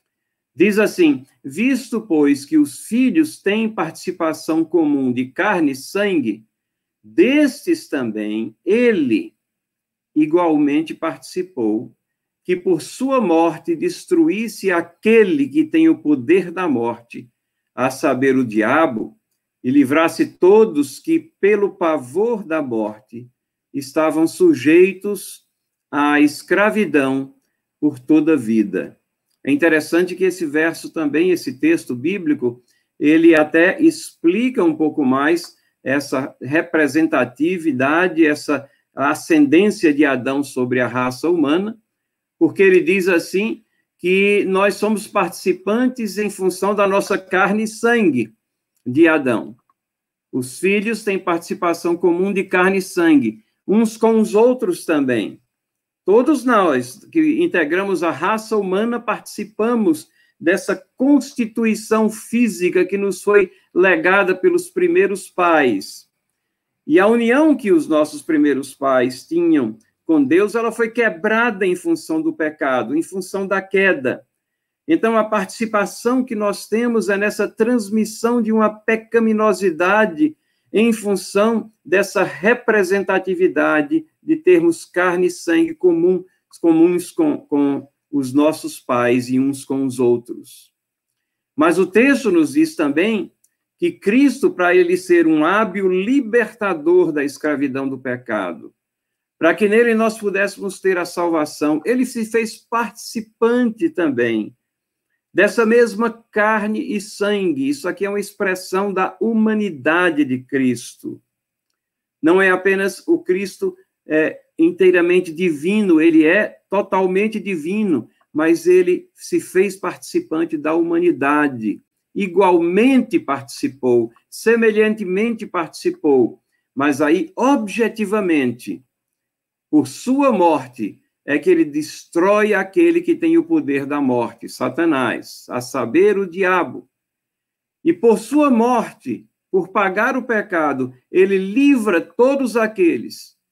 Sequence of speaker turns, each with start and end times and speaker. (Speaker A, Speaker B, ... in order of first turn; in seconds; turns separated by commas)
Speaker A: 0.5-6.4, Speaker A: 7.0-9.3, Speaker A: 10.1-41.8, Speaker A: 42.4-48.3, Speaker A: 48.9-49.6, Speaker A: 50.3-55.4, Speaker A: 56.0-66.1, Speaker A: 66.8-74.2, Speaker A: 74.9-90.7, Speaker A: 91.5-98.7, Speaker A: 99.4-104.5, Speaker A: 105.3-111.2, Speaker A: 112.2-128.8, Speaker A: 129.7-136.9, Speaker A: 137.8-143.3